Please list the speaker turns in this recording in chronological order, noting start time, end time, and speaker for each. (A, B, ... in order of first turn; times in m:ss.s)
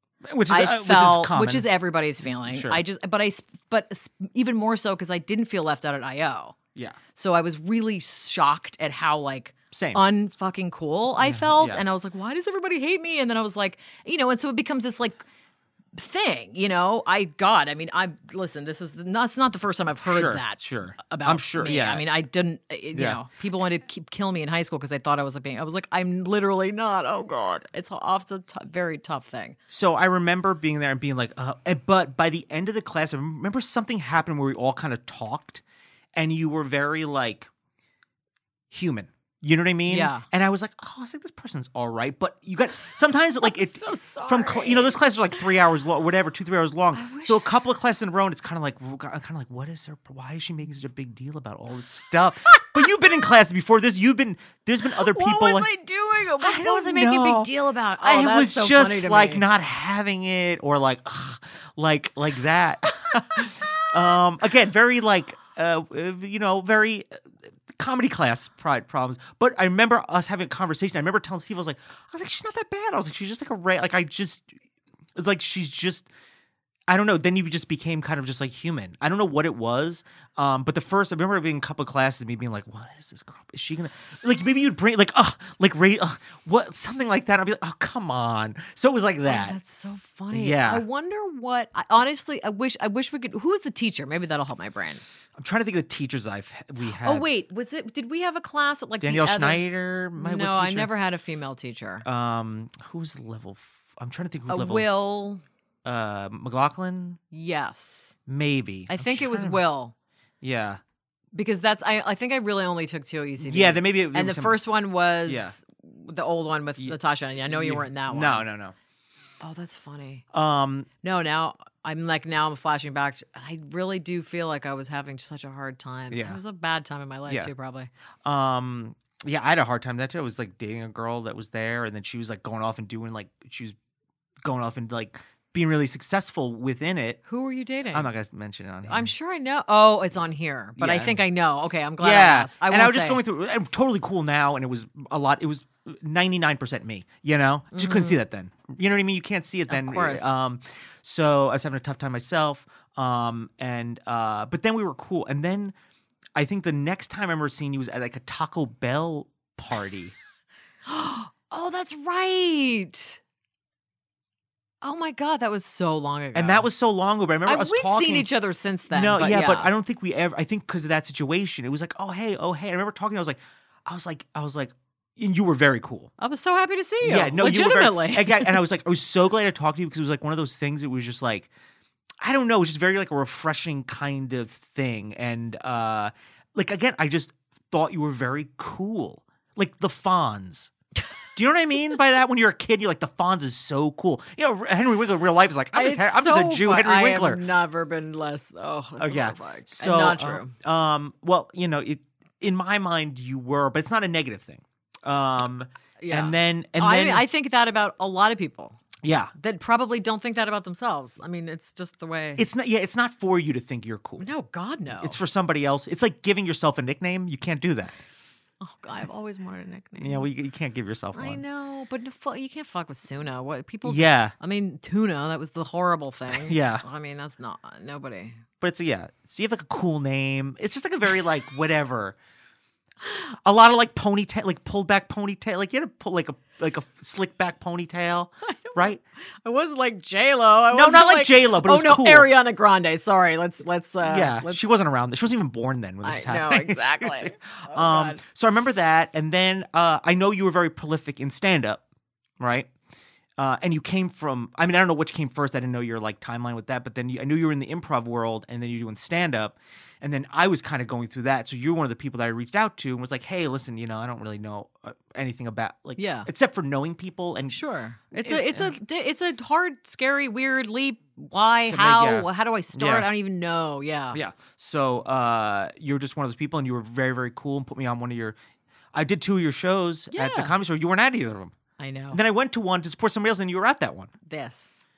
0:00.2-0:01.7 A
0:00.5-0:06.6 B
0:02.4-0:02.8 A
0:07.1-0:15.2 B
0:09.7-0:10.0 A
0:11.2-0:11.8 A
0:15.9-0:29.6 B
0:20.0-0:22.0 A
0:22.9-0:23.2 A
0:29.7-0:35.6 A
0:36.1-0:37.5 A
0:38.7-0:55.7 A
0:39.9-0:40.2 B
0:43.4-0:45.0 B
0:46.9-0:47.5 B
0:54.8-0:59.4 B
0:56.4-1:07.0 A
1:07.7-1:14.5 A
1:15.2-1:16.1 A
1:16.9-1:29.6 A
1:29.2-1:35.0 B
1:30.3-1:30.8 A
1:35.4-1:37.3 A
1:36.8-1:39.6 B
1:39.0-1:40.9 A
1:40.2-1:42.0 B
1:42.0-1:44.9 A
1:44.5-1:45.4 B
1:45.8-1:47.2 A
1:47.3-1:48.1 B
1:48.3-1:49.6 A
1:48.9-1:49.9 B
1:50.4-1:50.8 A
1:51.3-1:58.5 B
1:53.4-1:54.6 A
1:55.2-1:55.6 A
1:57.5-1:58.7 A
1:59.4-2:00.2 B
2:00.3-2:00.9 A
2:01.0-2:07.9 B
2:06.1-2:06.4 A
2:08.2-2:13.8 A
2:14.4-2:17.2 A
2:17.3-2:18.1 B
2:17.9-2:19.1 A
2:18.9-2:23.2 B
2:20.8-2:21.2 A
2:22.0-2:35.7 A
2:27.7-2:28.2 B
2:29.7-2:30.3 B
2:36.4-2:40.1 A
2:40.8-2:43.2 B
2:44.8-2:46.7 B
2:46.3-2:48.3 A
2:47.4-2:49.7 B
2:48.9-2:56.1 A
2:56.2-2:58.6 B
2:57.0-3:01.5 A
3:02.2-3:10.7 A
3:11.3-3:17.4 A
3:15.7-3:20.5 B
3:19.0-3:27.2 A
3:26.0-3:28.8 B
3:29.0-3:29.3 A
3:29.3-3:32.4 B
3:32.4-3:34.3 A
3:34.2-3:35.2 B
3:35.0-3:38.0 A
3:38.6-3:40.3 B
3:40.0-3:41.4 A
3:41.1-3:48.4 B
3:43.8-3:44.3 A
3:46.3-3:46.8 A
3:48.6-3:52.2 A
3:53.4-3:59.0 A
3:58.4-4:04.7 B
4:00.7-4:02.3 A
4:04.0-4:11.8 A
4:06.0-4:08.2 B
4:12.4-4:12.7 A
4:13.4-4:27.6 A
4:26.0-4:26.3 B
4:27.5-4:34.2 B
4:28.2-4:28.7 A
4:31.7-4:33.1 A
4:34.1-4:38.4 A
4:38.9-4:41.5 A
4:40.1-4:40.6 B
4:41.8-4:42.2 B
4:42.1-4:44.1 A
4:44.2-4:44.7 B